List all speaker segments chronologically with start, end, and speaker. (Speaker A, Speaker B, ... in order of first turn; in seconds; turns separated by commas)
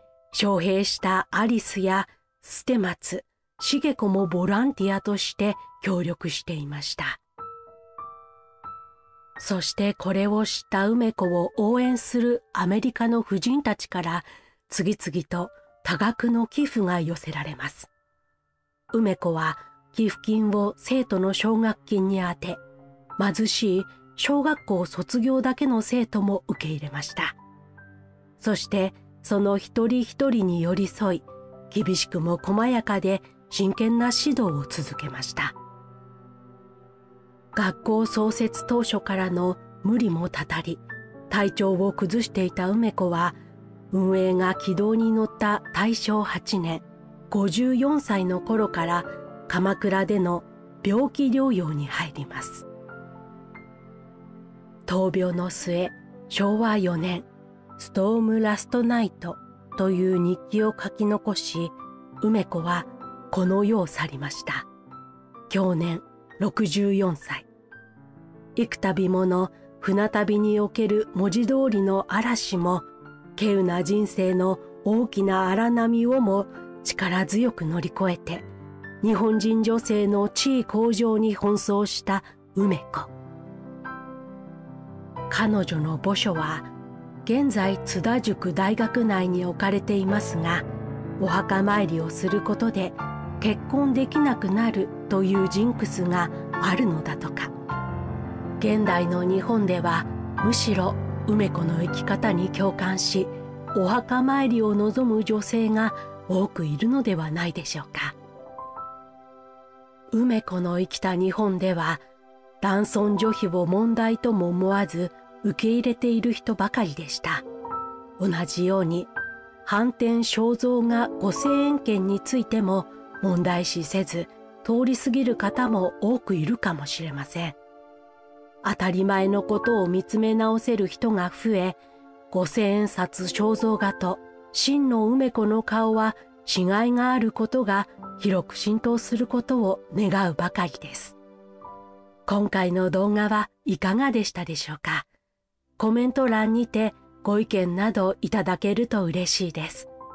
Speaker A: 0.3-7.2, Speaker A: 9.4-17.9, Speaker A: 18.9-22.6, Speaker A: 23.2-27.4, Speaker A: 28.4-35.5, Speaker A: 37.5-43.3, Speaker A: 43.9-52.6, Speaker A: 54.9-57.2, Speaker A: 57.8-64.7, Speaker A: 65.5-67.5, Speaker A: 68.5-78.5, Speaker A: 79.0-83.1, Speaker A: 85.3-86.7, Speaker A: 87.2-90.7, Speaker A: 91.2-97.5, Speaker A: 98.6-108.2, Speaker A: 110.1-112.0, Speaker A: 112.6-117.4, Speaker A: 118.2-119.1, Speaker A: 119.6-127.5, Speaker A: 128.6-131.8, Speaker A: 132.3-141.2, Speaker A: 142.2-145.1, Speaker A: 145.8-149.9